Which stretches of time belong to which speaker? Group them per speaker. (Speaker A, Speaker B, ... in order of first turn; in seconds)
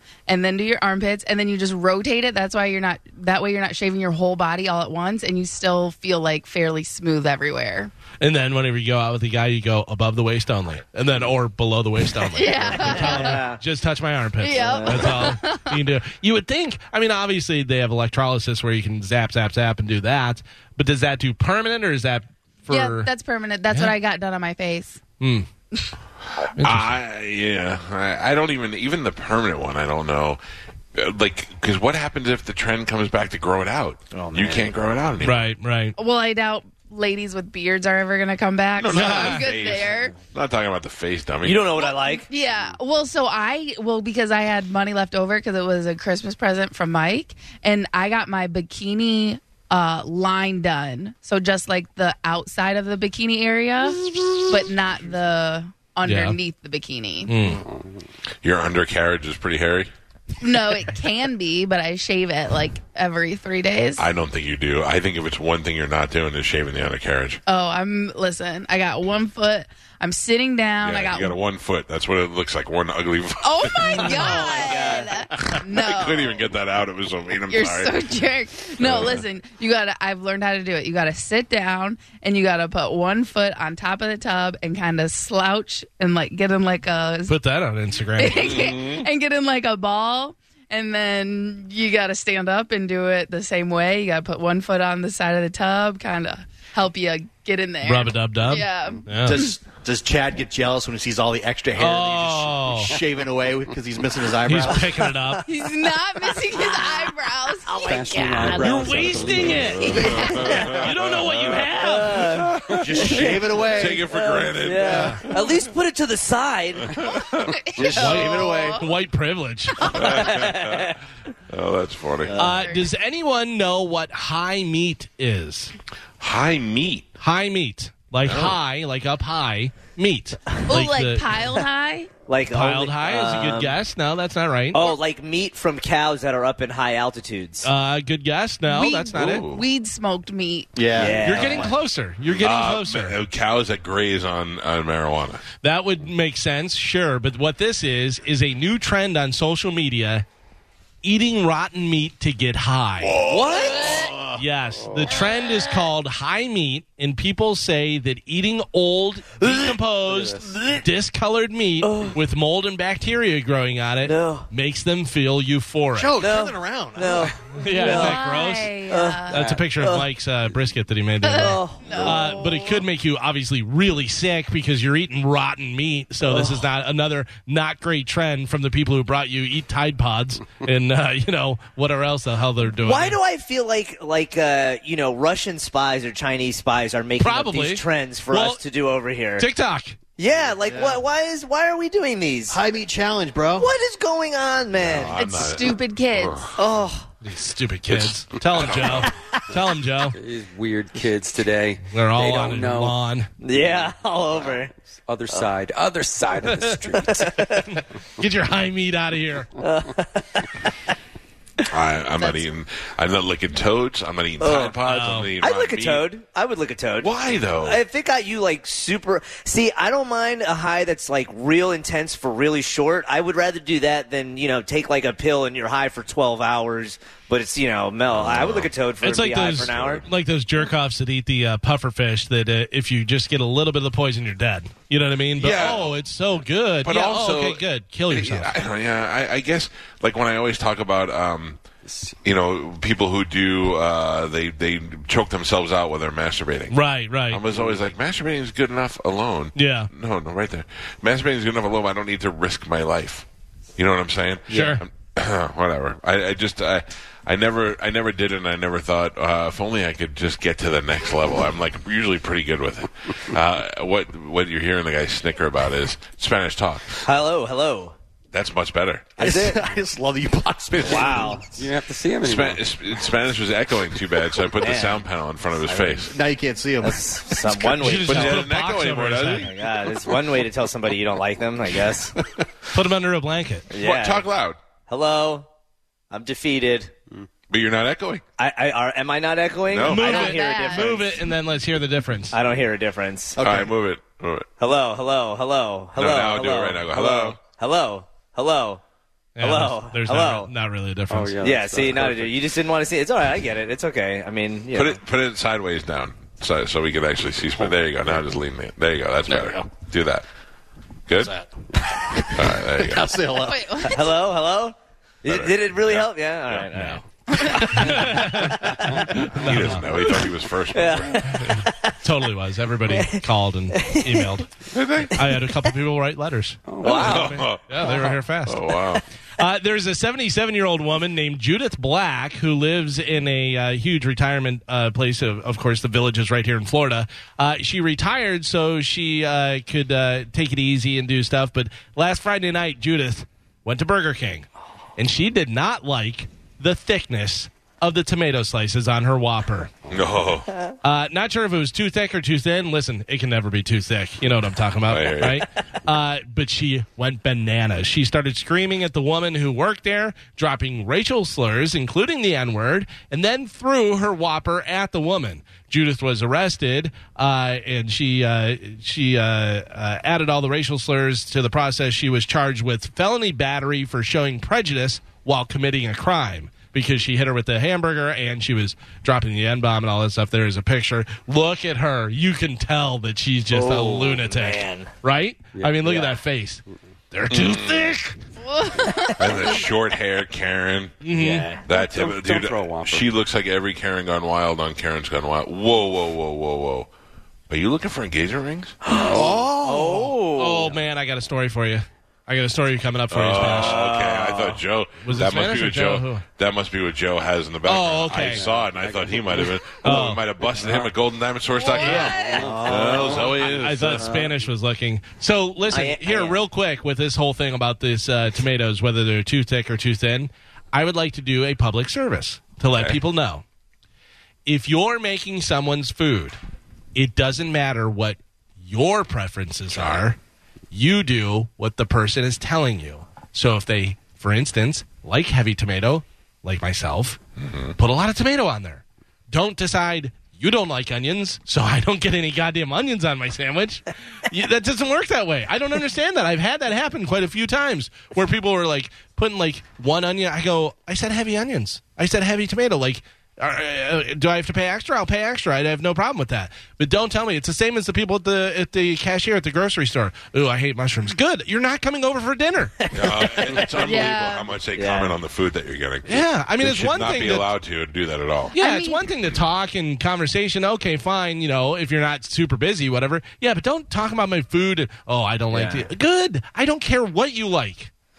Speaker A: 0.3-7.9, 12.2-13.5, 14.4-15.8, 22.7-25.0, 36.0-40.1, 41.8-57.5, 60.4-64.0, 67.5-71.4, 73.4-76.4, 77.5-87.3, 88.2-99.5, 105.5-108.5, 109.8-110.7, 117.1-118.9, 130.7-132.1, 138.7-140.8, 167.8-169.5, 171.2-172.8, 195.2-196.4, 290.0-291.0, 313.5-314.0, 388.4-389.6, 411.8-412.4, 463.8-464.5, 468.6-469.1
Speaker B: 8.2-23.1, 25.2-25.5, 26.6-26.9, 35.2-36.0, 38.9-39.5, 56.0-56.4, 57.3-57.6, 87.3-88.6, 97.8-99.4, 101.8-102.9, 104.5-105.5, 108.5-110.1, 110.7-112.3, 114.9-115.2, 117.8-120.0, 122.4-125.7, 127.2-131.3, 132.5-134.8, 137.6-139.5, 141.2-143.2, 145.6-150.2, 151.0-153.2, 154.3-166.2, 167.6-168.7, 169.3-183.2, 187.2-188.6, 189.4-190.0, 197.2-200.2, 201.9-203.3, 207.7-209.5, 214.8-215.3, 229.0-238.5, 246.7-247.4, 249.6-249.9, 254.5-254.8, 277.8-279.5, 282.7-283.6, 289.9-292.4, 299.4-301.4, 317.4-319.9, 321.3-324.5, 325.0-328.8, 329.4-349.7, 350.8-388.2, 391.0-391.5, 400.3-403.8, 405.0-406.2, 407.6-408.4, 409.8-410.2, 411.8-412.2, 413.3-423.4, 424.5-426.4, 426.9-430.2, 430.7-437.2, 437.8-462.8, 466.1-467.5, 468.6-477.9
Speaker C: 12.6-13.6, 14.5-15.3, 34.1-34.8, 41.4-42.3, 74.0-75.1, 106.5-107.1, 107.7-109.1, 109.9-110.8, 111.7-117.0, 117.8-118.8, 119.8-121.0, 122.2-122.7, 132.3-133.8, 134.7-137.7, 140.9-141.7, 153.3-154.1, 161.8-162.2, 164.1-164.5, 166.2-168.2, 168.9-170.1, 171.3-172.2, 176.3-176.7, 182.8-189.5, 190.2-192.6, 193.6-195.2, 196.6-197.1, 203.4-204.7, 207.0-207.7, 209.6-210.5, 214.4-214.8, 215.4-230.0, 267.0-267.9, 269.2-269.6, 270.8-271.4, 274.6-275.0, 275.6-276.1, 276.8-278.5, 279.4-282.1, 283.7-284.3, 284.9-285.5, 286.1-286.9, 288.4-291.2, 292.3-293.4, 294.6-298.8, 299.4-300.5, 301.4-305.0, 313.9-319.1, 320.0-321.9, 322.9-324.4, 326.8-327.4, 383.5-384.9, 391.1-391.6, 398.8-400.8, 403.4-404.6, 411.7-414.3, 415.7-416.4, 462.8-463.9, 464.8-465.1, 475.5-475.9
Speaker D: 26.4-30.4, 30.9-35.5, 38.8-41.7, 58.4-59.9, 64.0-67.4, 70.8-74.7, 75.4-78.1, 78.8-79.2, 88.3-89.1, 110.0-115.5, 116.9-117.6, 119.9-121.0, 121.5-122.4, 126.2-127.1, 128.2-128.6, 139.1-139.7, 142.3-145.4, 153.0-154.4, 194.8-196.5, 197.9-199.1, 211.7-216.1, 217.0-217.8, 228.1-228.7, 229.7-230.0, 235.4-236.0, 236.8-241.6, 242.2-253.3, 253.8-267.0, 268.3-269.2, 270.7-271.2, 272.2-276.1, 278.0-279.6, 283.8-284.6, 287.5-288.2, 289.7-290.3, 293.4-294.5, 296.0-297.4, 304.7-310.2, 311.1-311.3, 312.3-313.1, 315.3-317.0, 319.2-321.4, 324.7-325.2, 326.8-329.0, 349.9-350.5, 354.9-355.5, 387.3-387.9, 389.2-391.0, 391.6-396.9, 397.5-398.8, 403.1-414.1, 422.7-423.0, 429.7-430.1, 437.4-437.8, 462.9-468.6
Speaker E: 57.6-58.0, 107.8-110.2, 154.9-155.2, 160.1-160.6, 200.1-203.0, 203.6-207.6, 241.8-242.2, 247.5-247.8, 271.4-272.6, 301.1-302.4, 326.7-327.3, 385.6-386.1, 391.7-393.1, 408.2-409.6, 410.6-410.9, 412.4-413.3
Speaker F: 99.2-105.1, 112.7-114.1, 114.8-115.2, 140.8-141.7, 165.9-167.4, 190.7-191.0, 192.5-193.7, 269.2-271.4, 276.1-277.7, 293.4-293.7, 311.2-311.5, 312.1-313.9, 399.1-400.1